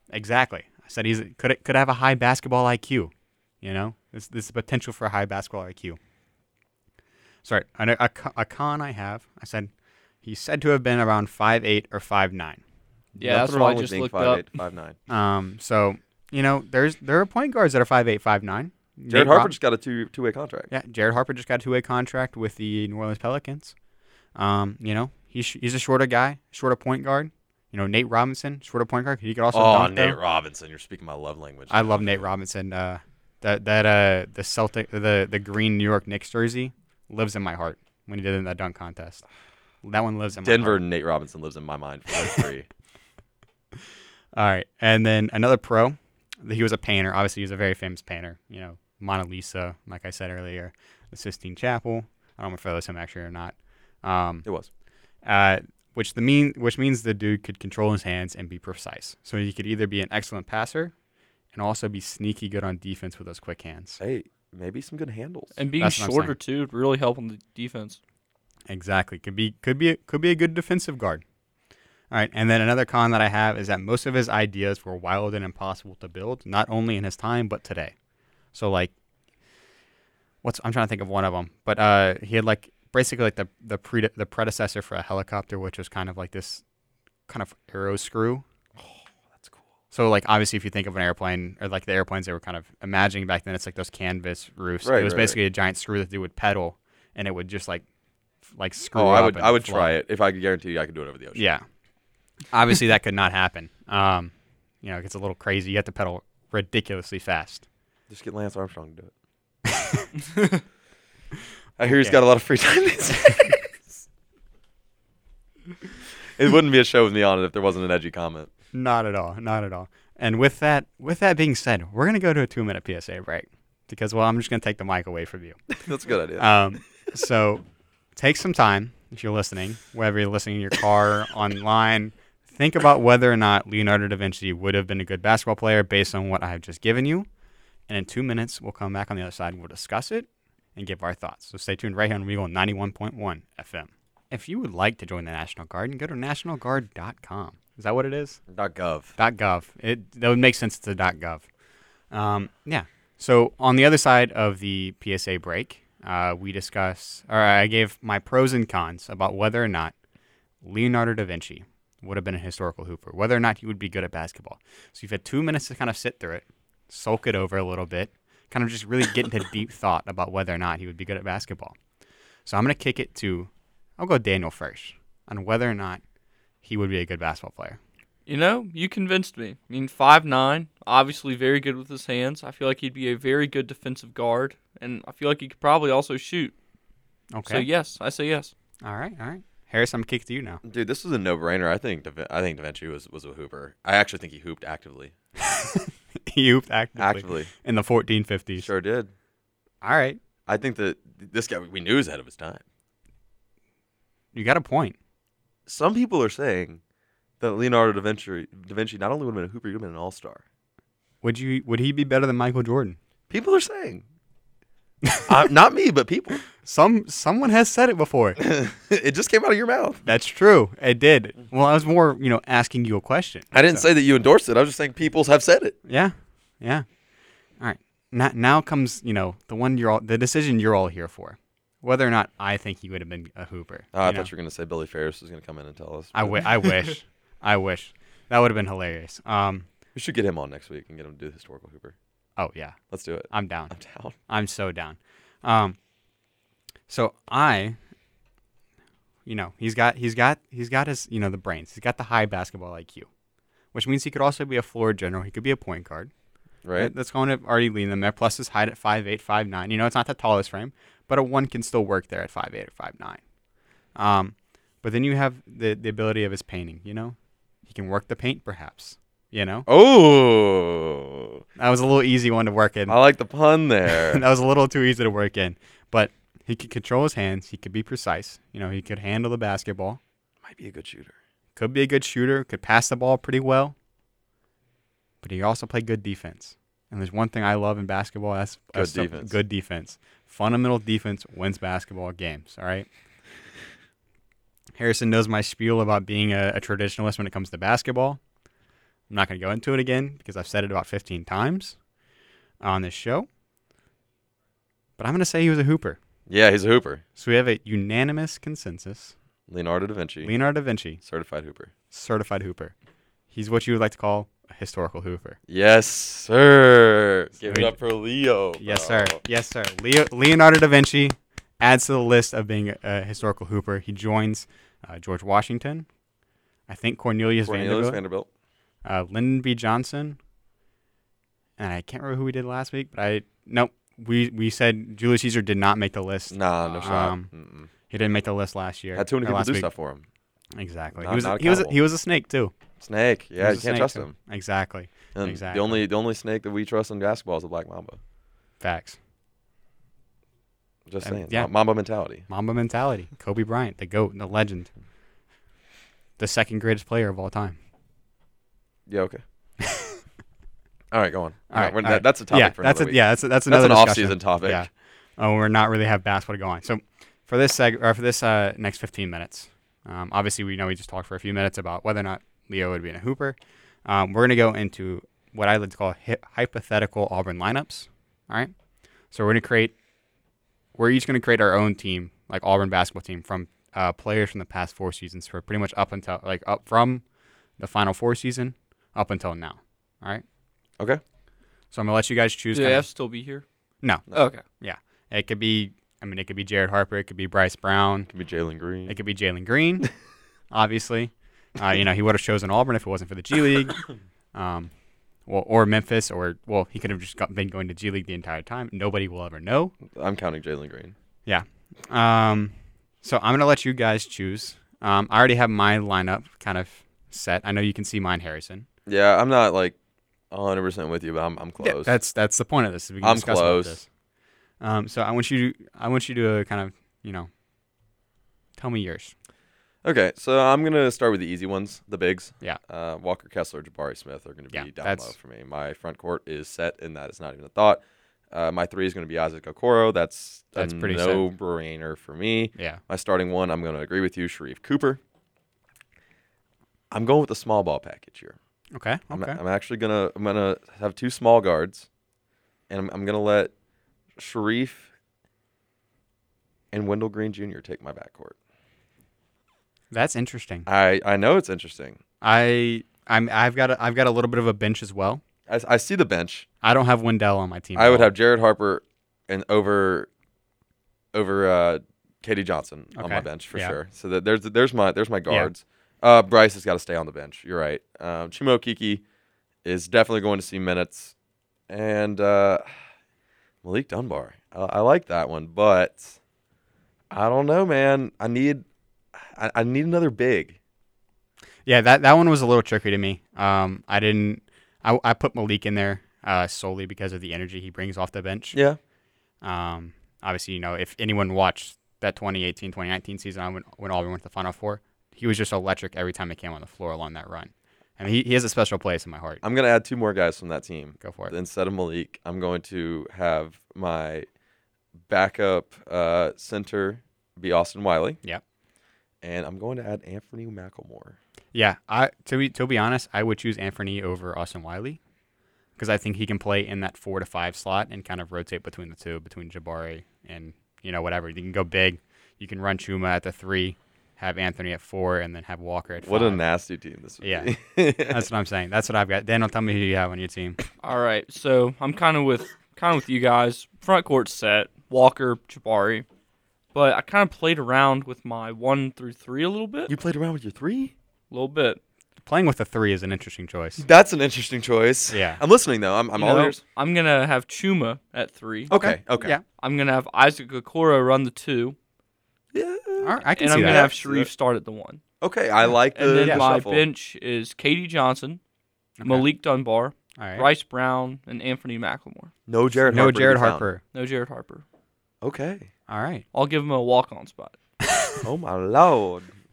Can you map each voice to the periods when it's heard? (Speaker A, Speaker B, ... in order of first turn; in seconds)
Speaker A: 0.1-6.0, 7.5-9.7, 10.2-12.6, 15.1-19.5, 20.7-23.8, 24.4-30.2, 31.7-39.2, 39.8-40.8, 44.3-54.5, 55.2-60.9, 61.5-64.0, 65.8-66.3, 68.7-71.2, 72.1-77.9, 78.5-78.9, 80.4-86.6, 87.3-88.4, 89.9-97.8, 98.5-100.0, 101.3-101.6, 102.5-107.7, 109.7-110.1, 111.8-112.2, 118.7-125.7, 126.4-137.3, 137.9-148.4, 149.2-151.5, 152.1-159.9, 160.6-171.8, 172.5-176.0, 176.6-177.8, 187.3-187.7, 188.8-190.6, 195.4-198.7, 199.8-200.2, 204.3-205.0, 211.2-213.0, 216.6-218.4, 220.1-223.8, 225.9-226.8, 227.6-234.3, 236.1-239.7, 242.4-242.8, 243.3-243.7, 244.3-245.8, 246.9-247.8, 249.3-253.1, 253.7-256.1, 256.8-263.2, 264.0-269.7, 271.6-273.0, 273.9-280.0, 281.6-283.8, 285.2-292.9, 294.8-298.2, 299.1-301.8, 302.6-303.3, 305.0-306.0, 307.2-309.1, 310.2-311.0, 311.9-312.7, 313.3-315.4, 317.4-317.8, 318.6-325.9, 326.7-328.0, 328.9-330.2, 331.6-337.3, 337.9-339.7, 340.6-342.6, 343.4-345.8, 348.6-349.0, 351.0-351.5, 352.3-354.7, 356.2-357.6, 359.7-360.0, 361.5-378.5, 379.1-379.8, 380.8-387.0, 387.6-390.2, 391.7-392.9, 393.8-398.1, 398.9-399.9, 400.5-404.7, 405.3-409.8, 411.3-418.7, 421.6-423.9, 424.6-427.3, 428.6-429.1, 434.5-435.1, 440.6-441.3, 442.6-442.8, 448.7-449.4, 459.9-460.7, 462.2-465.2, 466.6-468.1, 472.9-473.8, 491.7-498.6, 499.4-509.4, 511.0-511.3, 521.5-525.0, 525.8-536.4, 537.2-537.5, 538.1-540.6, 552.2-553.9, 555.1-555.4, 558.7-559.4, 563.0-563.9, 566.2-566.5, 569.0-569.3, 570.2-570.5, 572.9-573.8, 575.9-576.2, 577.9-578.2
Speaker B: 13.2-15.0, 19.1-20.7, 29.5-32.2, 40.4-42.7, 64.0-65.6, 88.8-89.6, 94.8-95.4, 99.0-101.4, 108.1-109.1, 111.8-113.7, 116.4-118.5, 125.8-126.5, 148.5-149.2, 190.6-195.1, 197.0-197.5, 198.6-199.1, 200.5-202.6, 205.7-206.8, 207.4-210.4, 213.3-214.0, 215.3-216.4, 218.4-220.1, 223.5-225.8, 233.9-236.8, 239.9-241.9, 242.9-244.2, 256.6-256.9, 269.7-271.4, 272.9-274.2, 280.4-281.1, 288.8-289.4, 306.3-307.0, 309.5-310.3, 311.0-311.7, 315.5-319.2, 327.4-328.3, 336.3-337.7, 338.9-340.1, 341.0-341.8, 342.8-344.1, 345.1-348.0, 350.9-352.2, 358.9-359.2, 360.9-364.7, 398.1-398.9, 409.9-410.9, 418.9-419.8, 420.3-421.9, 423.0-423.8, 429.8-445.0, 446.9-448.4, 449.1-451.9, 452.7-453.5, 454.2-454.9, 456.7-458.4, 460.7-462.0, 465.5-466.5, 467.8-470.1, 471.1-479.0, 479.6-481.1, 481.7-482.6, 483.6-486.2, 487.1-490.6, 509.4-514.3, 515.1-518.2, 519.2-521.2, 536.0-538.3, 549.9-550.9, 553.8-556.6, 558.7-559.4, 562.5-564.3, 565.2-566.9, 572.5-573.7, 575.2-575.7, 578.2-579.3
Speaker C: 13.2-14.4, 65.6-68.0, 178.3-186.6, 187.5-188.5, 392.5-393.4, 394.1-394.4, 540.8-546.1, 546.7-549.9, 551.3-551.8, 556.2-558.7, 559.5-561.8, 563.4-565.0, 565.9-568.4, 569.0-572.3, 573.9-574.6, 576.3-577.6